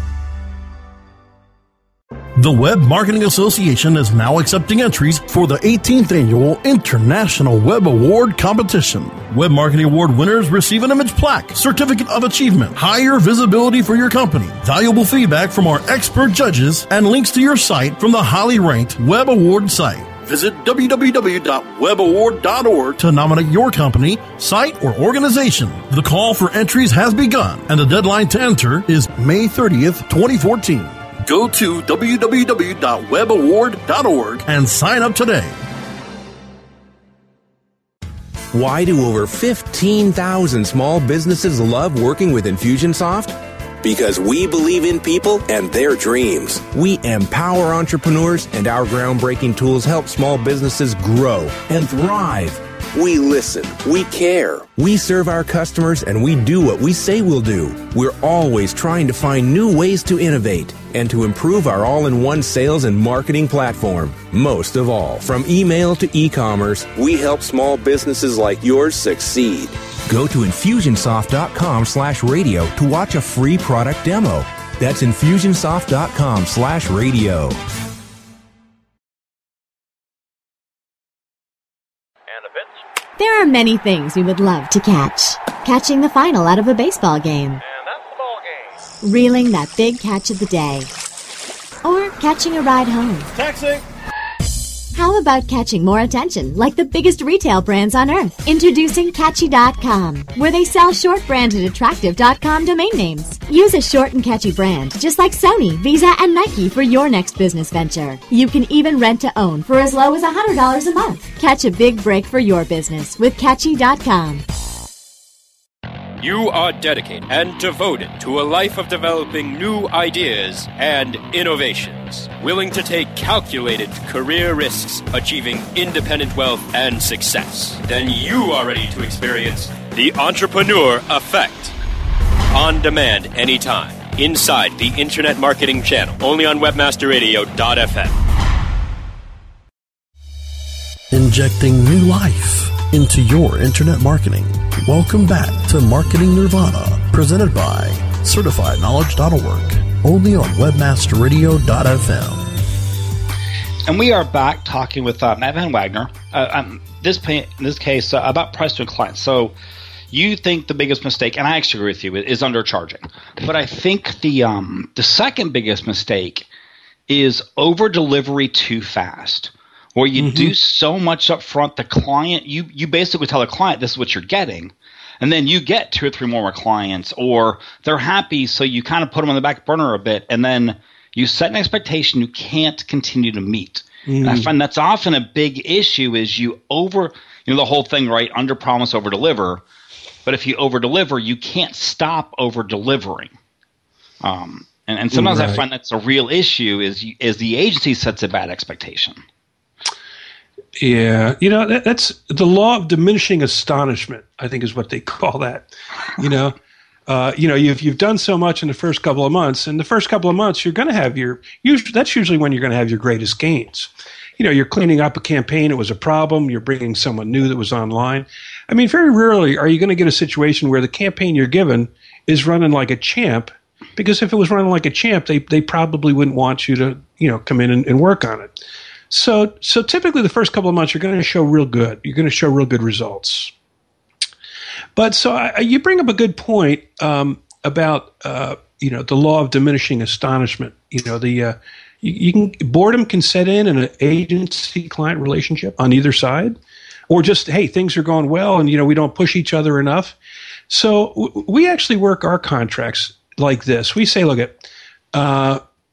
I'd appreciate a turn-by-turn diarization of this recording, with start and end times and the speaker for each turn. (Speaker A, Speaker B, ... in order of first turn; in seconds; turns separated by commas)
Speaker A: 2.4-35.5, Speaker B: 38.5-77.6, Speaker C: 83.2-87.6, Speaker D: 87.8-88.4, Speaker C: 89.0-90.9, Speaker C: 91.8-93.3, Speaker A: 93.4-93.8, Speaker C: 94.9-114.4, Speaker D: 116.2-131.8, Speaker D: 132.5-138.2, Speaker A: 141.1-152.5, Speaker E: 153.9-159.6, Speaker E: 160.1-166.5, Speaker E: 167.1-189.6, Speaker F: 170.2-170.5, Speaker F: 184.1-184.5, Speaker E: 190.2-193.3, Speaker E: 194.2-199.2, Speaker F: 195.1-195.6, Speaker F: 200.8-206.5, Speaker F: 207.1-228.5, Speaker F: 229.1-233.5, Speaker F: 234.9-246.6, Speaker F: 247.1-250.1, Speaker F: 250.7-255.6